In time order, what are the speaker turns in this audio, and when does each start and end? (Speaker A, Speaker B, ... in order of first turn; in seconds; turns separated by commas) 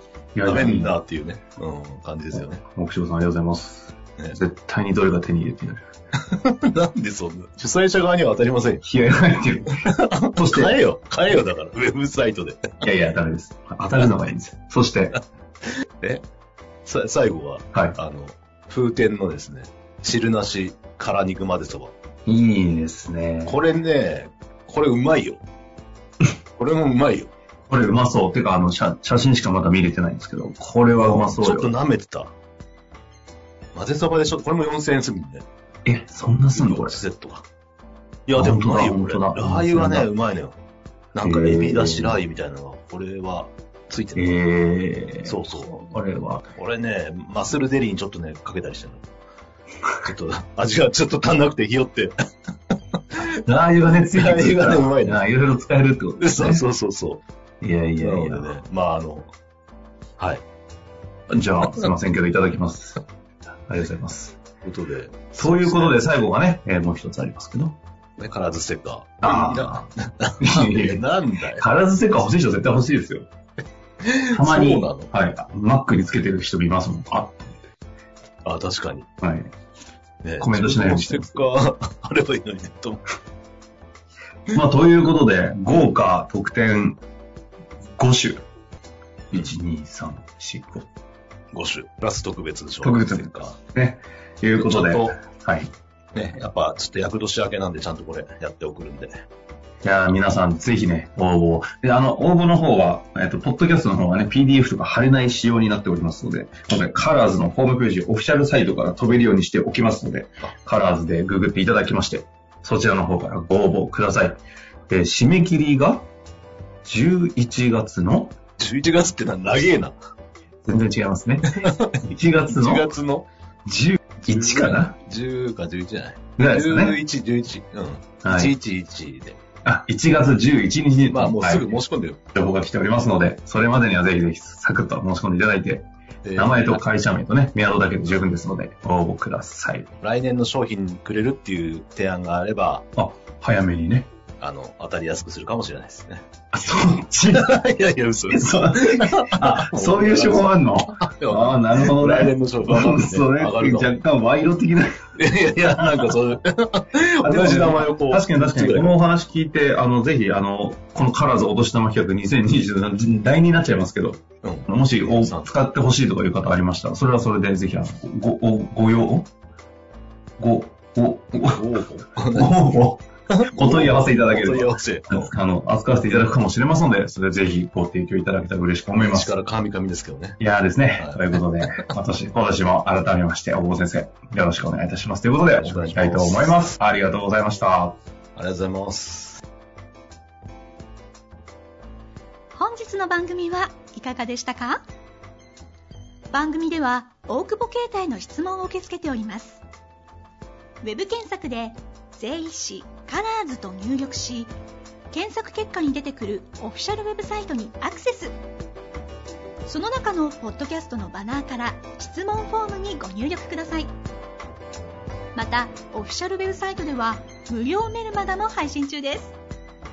Speaker A: 0.3-1.0, Speaker B: 0.5-2.6, Speaker A: 2.3-5.9, Speaker B: 6.3-8.8, Speaker A: 8.8-9.8, Speaker B: 9.8-12.8, Speaker A: 10.4-10.8, Speaker A: 12.8-15.2, Speaker B: 15.8-16.2, Speaker B: 16.9-21.9, Speaker A: 22.3-23.6, Speaker B: 23.4-25.4, Speaker B: 26.6-27.3, Speaker A: 27.7-31.7, Speaker B: 31.0-32.3, Speaker B: 33.8-35.5, Speaker A: 35.9-37.0, Speaker B: 36.5-37.5, Speaker B: 38.3-40.6, Speaker A: 38.3-40.1, Speaker B: 41.1-44.3, Speaker A: 41.2-42.2, Speaker A: 44.2-46.4, Speaker B: 45.2-45.8, Speaker B: 46.5-49.0, Speaker B: 50.0-52.1, Speaker A: 53.4-56.6, Speaker B: 54.1-55.2, Speaker B: 56.2-57.2, Speaker A: 57.6-58.5, Speaker B: 58.0-59.3, Speaker B: 60.2-60.4, Speaker A: 61.3-63.0, Speaker A: 63.7-64.4, Speaker B: 64.7-66.0, Speaker A: 65.4-67.8, Speaker B: 68.2-71.7, Speaker A: 69.2-69.9, Speaker A: 70.4-71.0, Speaker A: 71.6-73.3, Speaker B: 74.0-75.1, Speaker A: 74.3-77.7, Speaker B: 78.5-79.1, Speaker A: 79.2-79.5, Speaker B: 80.2-83.0, Speaker A: 80.4-81.4, Speaker A: 84.5-87.0, Speaker A: 88.0-88.5, Speaker A: 89.3-90.9, Speaker B: 91.5-93.5, Speaker A: 92.8-95.7, Speaker B: 94.6-95.2, Speaker B: 96.2-99.2, Speaker A: 99.8-116.1, Speaker A: 116.8-118.4, Speaker B: 118.6-119.9, Speaker A: 120.7-122.9, Speaker B: 121.6-122.0, Speaker B: 122.5-123.3, Speaker A: 123.7-125.0, Speaker B: 124.2-129.4, Speaker A: 126.4-127.0, Speaker A: 128.2-128.6, Speaker A: 129.7-131.7, Speaker B: 131.1-132.2, Speaker A: 132.3-139.9, Speaker B: 136.2-136.8, Speaker B: 140.0-142.8, Speaker A: 143.0-144.1, Speaker B: 144.4-146.2, Speaker A: 146.5-147.6, Speaker B: 147.3-154.0, Speaker A: 148.3-156.2, Speaker B: 155.2-158.9, Speaker A: 157.2-169.3, Speaker B: 164.4-165.5, Speaker A: 170.4-171.7, Speaker B: 171.5-172.6, Speaker A: 172.3-173.0, Speaker B: 173.3-175.3, Speaker A: 173.6-179.3, Speaker B: 178.9-180.4, Speaker A: 180.4-188.0, Speaker B: 181.0-181.9, Speaker B: 185.4-186.7, Speaker B: 188.4-189.4, Speaker C: 192.5-194.8, Speaker C: 196.3-199.6, Speaker C: 200.8-204.5, Speaker C: 205.1-208.3, Speaker C: 209.7-213.9, Speaker C: 215.3-219.4